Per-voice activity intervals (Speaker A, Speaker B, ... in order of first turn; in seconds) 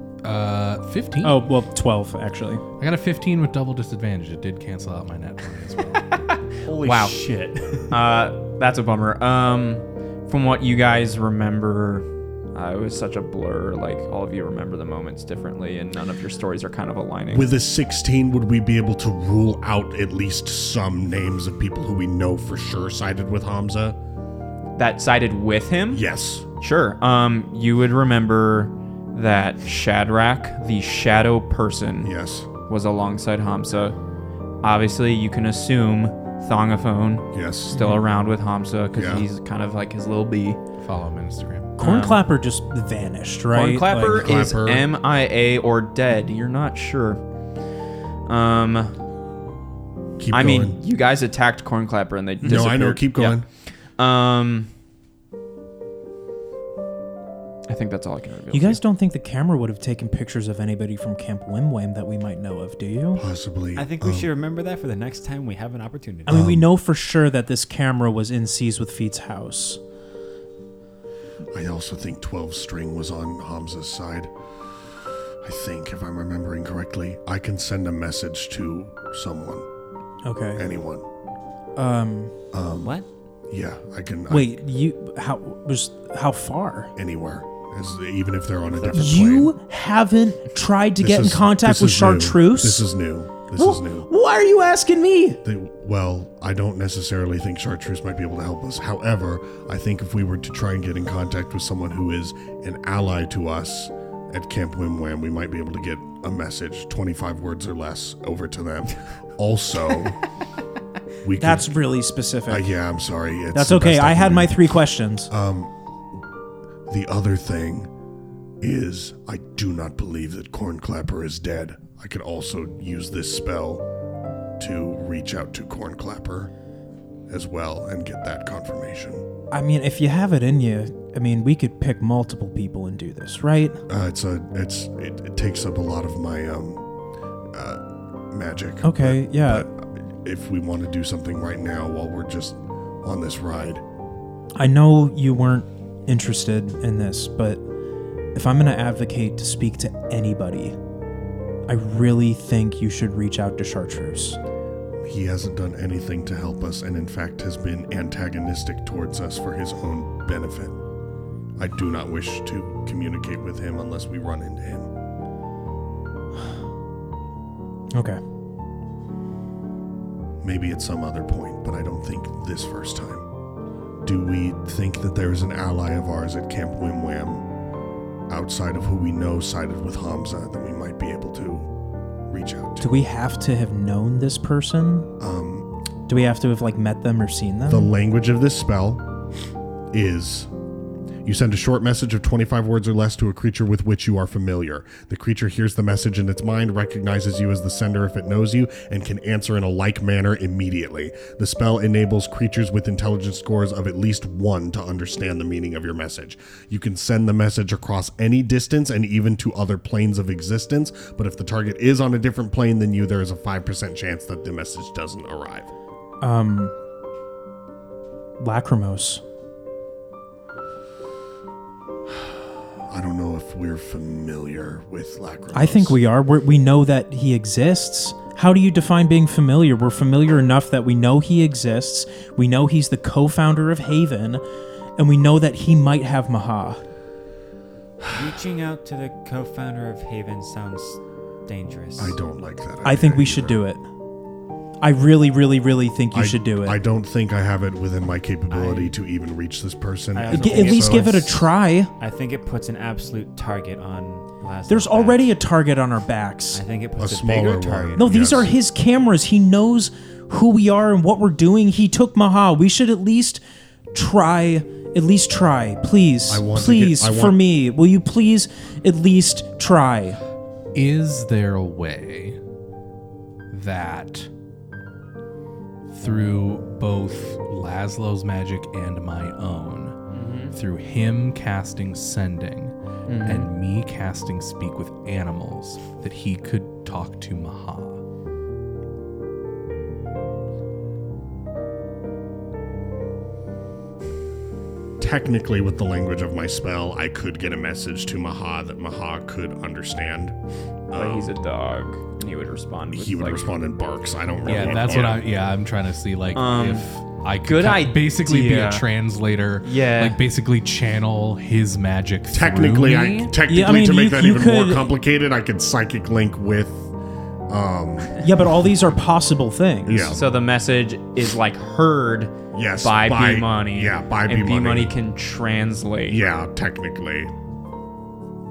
Speaker A: 0.2-1.5, 2.8-6.1, 40.8-41.7, 270.7-272.4, 273.5-274.3, 275.9-280.0, 280.5-288.0, 304.4-313.3
Speaker B: 1.2-2.6, 37.7-38.0, 41.8-44.4, 58.5-63.2, 66.2-69.8, 80.2-80.6, 81.8-82.3, 84.3-86.9, 88.9-92.9, 93.5-95.4, 111.3-112.7, 113.5-115.3, 129.5-133.8, 138.8-139.7, 144.6-147.6, 148.3-150.8, 151.7-154.4, 167.9-168.2, 182.8-185.1, 186.1-187.9, 216.2-216.7, 218.4-219.2, 225.5-234.4, 235.0-236.8, 242.8-243.8, 244.8-246.8, 250.3-251.9, 254.7-256.6, 257.9-263.4, 263.9-270.2, 313.5-314.9, 318.2-320.2
Speaker C: 6.1-7.2, 7.9-17.5, 24.8-26.0, 26.6-32.1, 32.7-34.0, 34.6-40.6, 41.8-42.2, 43.5-47.2, 48.3-48.9, 50.3-53.4, 54.0-54.7, 57.7-58.8, 280.1-280.5, 283.1-283.5, 300.9-303.5, 304.5-305.1, 306.3-306.9, 307.4-308.9, 309.6-310.2, 320.1-326.2
Speaker D: 6.6-7.9, 63.7-66.5, 82.8-83.1, 88.7-89.2, 238.1-242.2, 248.5-249.0, 250.1-251.4, 252.0-255.2, 256.5-258.4
Speaker E: 17.3-24.0, 25.9-26.4, 32.0-32.5, 37.3-37.9, 38.9-39.3, 44.1-44.9, 50.2-50.8, 52.4-53.5, 63.1-64.3, 66.3-66.7, 71.5-74.3, 75.4-79.7, 80.5-81.0, 82.5-83.0, 83.5-84.5, 87.0-89.5, 91.0-94.1, 95.4-110.2, 111.2-111.8, 112.5-114.6, 115.3-115.7, 116.9-117.9, 118.6-123.8, 124.6-126.5, 127.3-129.2, 133.9-136.8, 137.5-143.8, 155.0-160.8, 161.6-164.9, 170.4-173.2, 174.0-177.4, 178.3-181.7, 182.3-182.9, 185.2-185.7, 187.7-189.1, 189.9-190.5, 191.2-215.7, 222.1-226.0, 238.0-238.3, 242.0-243.6, 246.1-251.3, 257.0-258.5, 266.3-267.4, 295.0-300.4, 300.9-301.3, 302.9-305.2, 312.3-316.9, 317.5-318.2, 319.8-320.2, 322.5-324.9, 326.1-327.3